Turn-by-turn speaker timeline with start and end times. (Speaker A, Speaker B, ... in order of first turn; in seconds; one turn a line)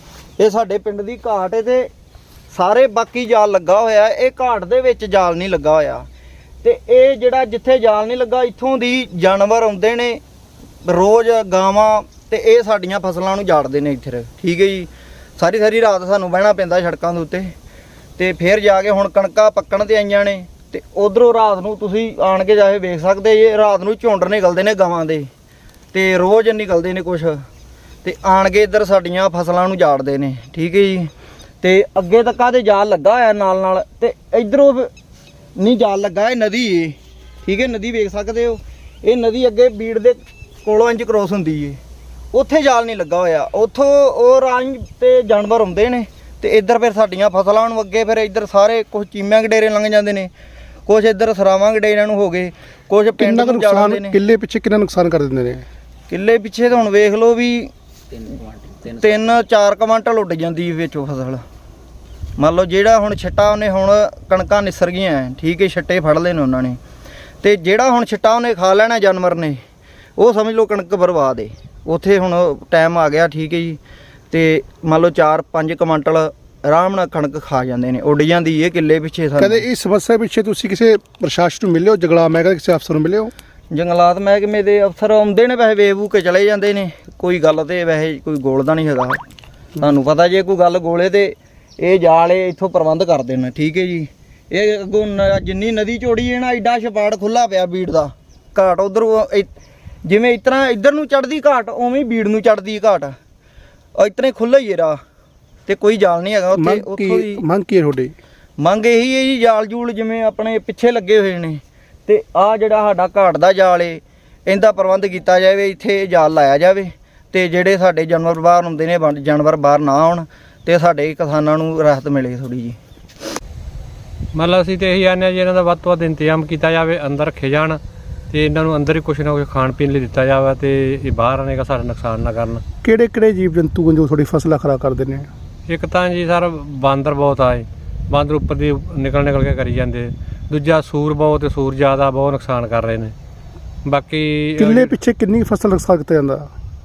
Speaker A: 0.4-1.9
Speaker A: 2.5-6.0
Speaker A: 6.6-10.2
Speaker A: 10.8-17.5
Speaker A: 18.2-25.3
Speaker A: 25.9-27.4
Speaker A: 28.0-31.1
Speaker A: 31.6-34.9
Speaker A: 35.6-41.8
Speaker A: 42.3-50.3
Speaker A: 50.9-54.1
Speaker B: 53.2-55.6
Speaker A: 56.1-57.7
Speaker A: 58.8-61.4
Speaker A: 62.4-66.8
Speaker A: 67.4-69.6
Speaker A: 70.2-73.8
Speaker A: 74.3-79.6
Speaker B: 79.4-83.3
Speaker A: 83.7-89.2
Speaker A: 89.8-99.5
Speaker A: 100.0-103.1
Speaker A: 104.0-105.0
Speaker A: 105.7-107.4
Speaker B: 106.6-108.1
Speaker A: 108.6-122.8
Speaker C: 124.3-132.6
Speaker B: 132.8-135.3
Speaker C: 135.7-143.1
Speaker C: 143.8-144.9
Speaker B: 144.6-146.5